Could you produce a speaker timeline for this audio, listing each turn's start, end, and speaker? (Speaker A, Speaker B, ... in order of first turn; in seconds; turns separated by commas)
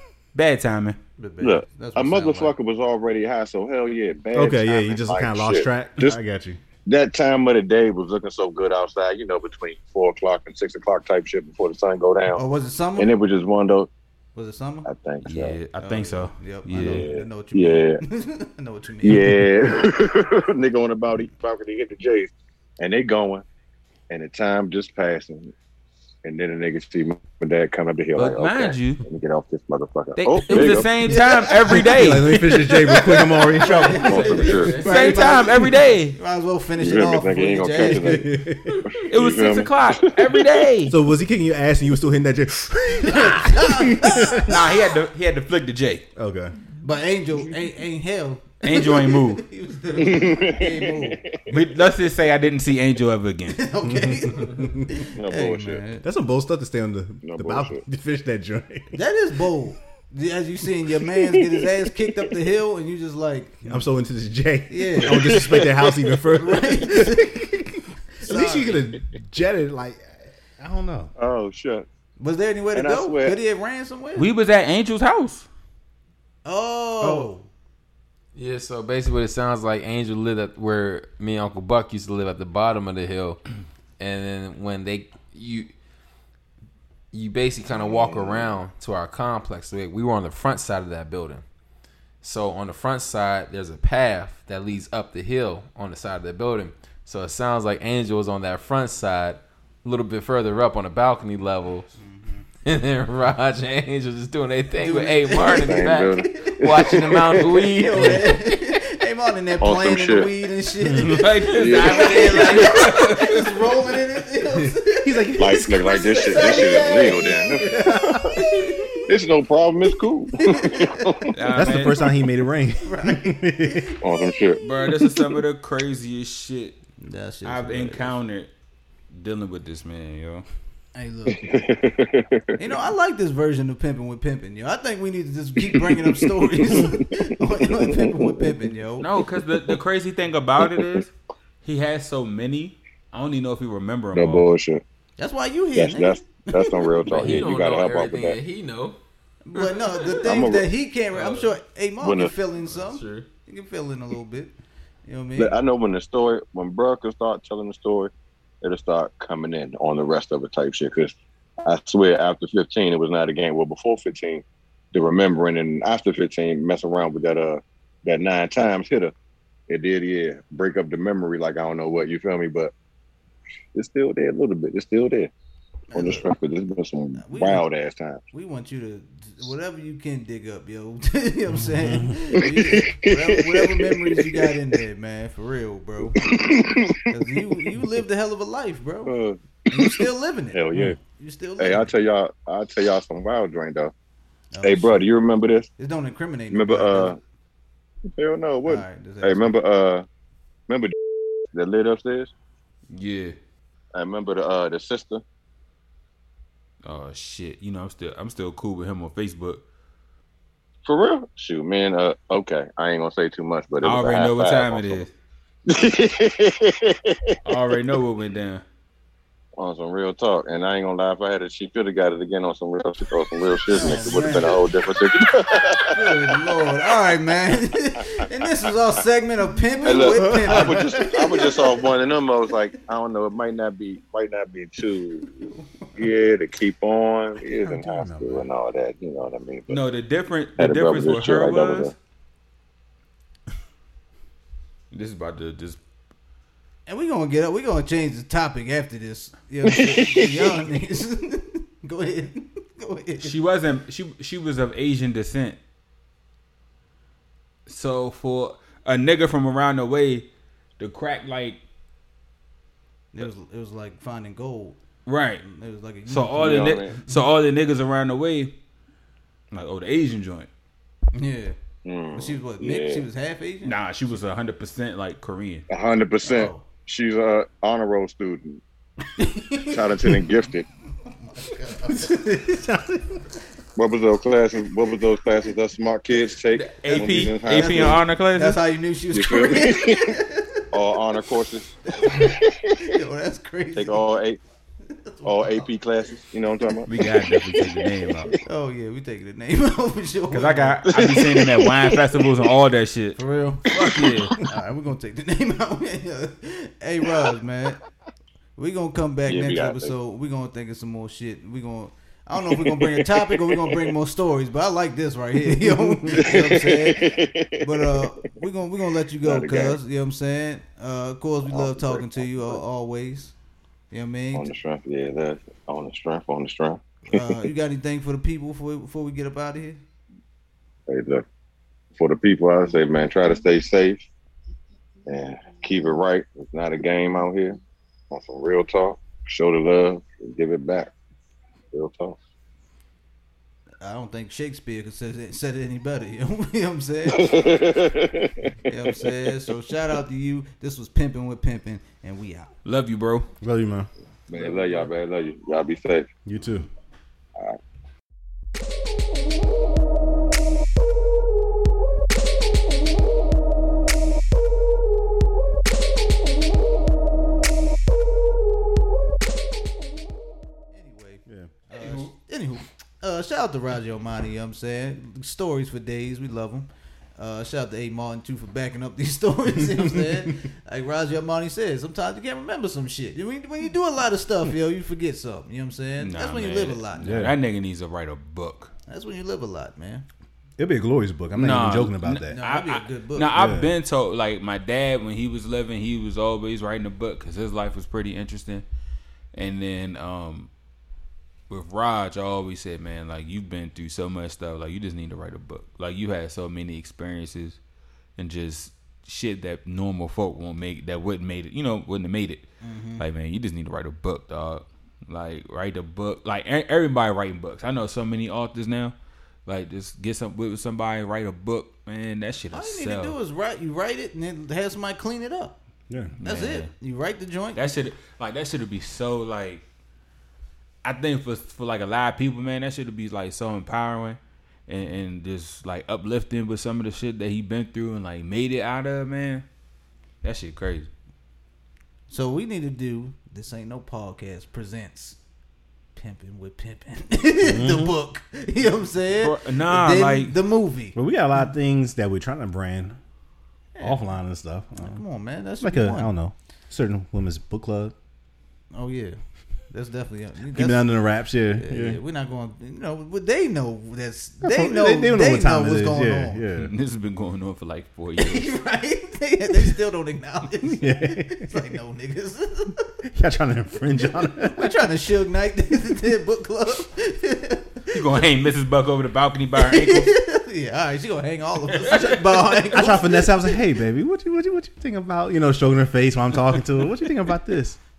Speaker A: 0.3-1.0, Speaker B: 1.2-2.5, Speaker C: 1.4-6.2, Speaker D: 4.3-6.6, Speaker C: 6.9-12.4, Speaker B: 12.3-13.1, Speaker C: 13.0-13.9, Speaker B: 14.3-14.9, Speaker C: 14.8-15.6, Speaker A: 15.2-17.1, Speaker B: 15.8-19.4, Speaker C: 16.7-18.0, Speaker C: 19.0-23.4, Speaker C: 24.1-25.5, Speaker C: 26.2-30.9, Speaker A: 28.2-29.0, Speaker A: 30.2-33.0, Speaker B: 31.1-31.4, Speaker D: 31.1-34.3, Speaker B: 33.1-38.3, Speaker E: 33.7-35.3, Speaker C: 33.9-34.9, Speaker A: 34.7-36.2, Speaker C: 36.8-40.5, Speaker D: 37.8-38.8, Speaker A: 39.1-41.0, Speaker D: 40.9-44.7, Speaker B: 43.0-44.5, Speaker A: 44.4-46.0, Speaker D: 46.2-46.5, Speaker B: 46.8-51.2, Speaker A: 48.6-49.4, Speaker C: 50.0-51.6, Speaker A: 51.5-53.6, Speaker B: 53.5-56.0, Speaker D: 53.8-54.9, Speaker C: 55.1-55.8, Speaker D: 56.0-59.0, Speaker C: 57.2-57.8, Speaker B: 58.9-63.9, Speaker D: 63.6-71.1, Speaker B: 64.7-65.6, Speaker C: 65.1-66.1, Speaker B: 66.3-67.5, Speaker B: 68.2-68.8, Speaker C: 71.2-71.9, Speaker B: 72.2-74.3, Speaker C: 72.7-73.4, Speaker A: 74.2-75.5, Speaker B: 76.5-77.5, Speaker E: 77.0-77.3, Speaker E: 78.3-83.4, Speaker E: 84.0-85.7, Speaker E: 87.1-91.4, Speaker C: 87.7-88.5, Speaker E: 92.2-101.9, Speaker B: 102.0-102.5, Speaker E: 102.6-108.4, Speaker B: 104.8-117.6, Speaker C: 105.4-107.5, Speaker C: 109.6-110.3, Speaker D: 110.8-111.3, Speaker A: 111.0-113.4, Speaker C: 111.5-112.9, Speaker E: 111.6-113.4, Speaker D: 115.0-118.4, Speaker C: 115.4-118.4, Speaker B: 118.3-119.0, Speaker C: 119.1-121.4, Speaker B: 120.4-121.3, Speaker A: 121.3-122.0, Speaker D: 121.5-123.9, Speaker B: 122.8-124.0, Speaker C: 124.0-124.6, Speaker A: 124.6-126.8, Speaker B: 127.0-128.2, Speaker A: 127.5-128.5, Speaker A: 129.2-130.4, Speaker B: 130.9-131.6, Speaker C: 131.3-132.8, Speaker B: 132.6-139.1, Speaker C: 135.7-138.5, Speaker A: 139.0-144.5, Speaker C: 139.4-139.8, Speaker C: 140.6-141.0, Speaker C: 144.1-144.8, Speaker B: 145.2-147.1, Speaker C: 145.7-148.4, Speaker E: 147.0-149.0, Speaker B: 149.4-154.6, Speaker E: 149.6-150.2, Speaker C: 150.2-150.7, Speaker E: 151.1-151.5, Speaker C: 152.0-152.3, Speaker E: 152.7-153.3, Speaker B: 155.1-155.6, Speaker C: 155.4-169.1, Speaker C: 169.7-172.7, Speaker C: 173.8-175.3, Speaker B: 175.9-176.3, Speaker C: 175.9-178.2, Speaker B: 177.2-177.7, Speaker B: 178.3-186.2, Speaker D: 181.5-182.2, Speaker C: 182.4-184.6, Speaker C: 186.1-187.1, Speaker B: 187.1-189.1, Speaker C: 189.1-191.0, Speaker B: 189.7-191.9, Speaker C: 191.6-193.9, Speaker B: 194.5-195.1, Speaker C: 194.6-195.7, Speaker B: 195.8-197.2, Speaker C: 196.5-197.2, Speaker C: 198.1-200.1, Speaker B: 198.7-199.6, Speaker C: 200.7-200.9, Speaker C: 201.5-202.3, Speaker A: 202.9-203.3, Speaker C: 203.9-205.2, Speaker A: 206.8-209.6, Speaker C: 210.8-215.0, Speaker A: 213.8-215.1, Speaker C: 215.7-217.4, Speaker A: 217.4-218.6, Speaker C: 219.6-226.4, Speaker B: 223.7-224.6, Speaker B: 225.9-231.8, Speaker C: 229.8-235.4, Speaker D: 230.1-231.3, Speaker B: 235.4-236.1, Speaker C: 236.0-239.8, Speaker D: 237.6-238.5, Speaker A: 239.7-241.9, Speaker C: 240.6-241.9, Speaker A: 244.9-245.8, Speaker B: 246.9-253.4, Speaker C: 249.7-250.6, Speaker A: 253.2-255.6, Speaker A: 257.7-260.3, Speaker A: 260.8-261.6, Speaker B: 263.1-264.8, Speaker A: 265.1-265.4, Speaker B: 265.4-266.5, Speaker A: 266.1-268.5, Speaker C: 266.4-267.0, Speaker A: 269.5-270.5, Speaker B: 271.1-271.6, Speaker C: 271.9-273.1, Speaker B: 272.1-273.8, Speaker A: 273.6-275.7, Speaker C: 275.7-278.6, Speaker B: 276.2-276.6, Speaker B: 279.2-280.3, Speaker C: 279.7-280.7, Speaker B: 281.1-282.6, Speaker D: 282.1-283.0, Speaker C: 283.8-288.0, Speaker A: 286.5-288.6, Speaker B: 286.9-290.6, Speaker C: 289.1-290.1, Speaker C: 290.7-292.8, Speaker B: 291.9-294.1, Speaker C: 293.8-294.4, Speaker B: 294.9-295.7, Speaker C: 295.2-298.4, Speaker A: 296.9-298.3, Speaker B: 298.4-300.8, Speaker A: 300.3-303.2, Speaker C: 300.9-302.2, Speaker B: 303.2-307.8, Speaker A: 303.7-304.3, Speaker C: 303.8-304.4, Speaker B: 308.6-323.3, Speaker C: 309.3-309.9, Speaker C: 312.5-313.9, Speaker C: 316.1-318.1, Speaker C: 319.2-319.8, Speaker C: 321.5-322.6, Speaker B: 323.9-324.5, Speaker C: 324.3-327.4, Speaker B: 327.1-329.8, Speaker C: 330.9-331.2, Speaker C: 332.0-334.1, Speaker C: 335.1-337.6, Speaker C: 338.1-340.9, Speaker C: 341.7-342.2, Speaker B: 343.8-347.6, Speaker C: 347.1-349.1, Speaker B: 348.7-352.5, Speaker A: 352.6-353.3, Speaker D: 353.4-353.9, Speaker C: 354.3-356.1, Speaker D: 356.3-356.7, Speaker B: 370.7-387.2, Speaker D: 371.3-371.5, Speaker A: 371.8-372.1, Speaker D: 379.6-380.3, Speaker A: 386.0-388.7, Speaker D: 387.0-387.4, Speaker B: 388.9-390.1, Speaker D: 390.6-392.4, Speaker A: 391.4-398.6, Speaker B: 392.3-393.3, Speaker D: 393.3-393.7, Speaker A: 399.3-400.5, Speaker A: 401.5-407.6, Speaker A: 408.2-412.4, Speaker B: 412.6-413.0, Speaker A: 413.0-418.9, Speaker A: 419.5-423.1, Speaker B: 422.5-425.6, Speaker A: 426.2-426.7, Speaker B: 426.2-427.7, Speaker A: 427.6-429.6, Speaker A: 430.8-439.4, Speaker A: 440.2-440.9, Speaker B: 442.1-445.2, Speaker B: 445.9-451.0, Speaker D: 447.4-447.9, Speaker A: 449.2-450.4, Speaker D: 450.9-453.0, Speaker B: 453.7-454.1, Speaker D: 453.8-455.0, Speaker B: 454.8-456.1, Speaker D: 455.6-457.9, Speaker B: 458.7-459.2, Speaker B: 459.7-461.0, Speaker D: 460.5-462.0, Speaker B: 461.6-466.4, Speaker D: 464.4-466.7, Speaker A: 466.6-468.5, Speaker B: 468.2-472.9, Speaker D: 470.8-471.6, Speaker D: 473.1-474.7, Speaker B: 474.3-478.2, Speaker A: 477.9-480.1, Speaker B: 479.6-483.6, Speaker A: 481.8-482.4, Speaker D: 481.9-487.8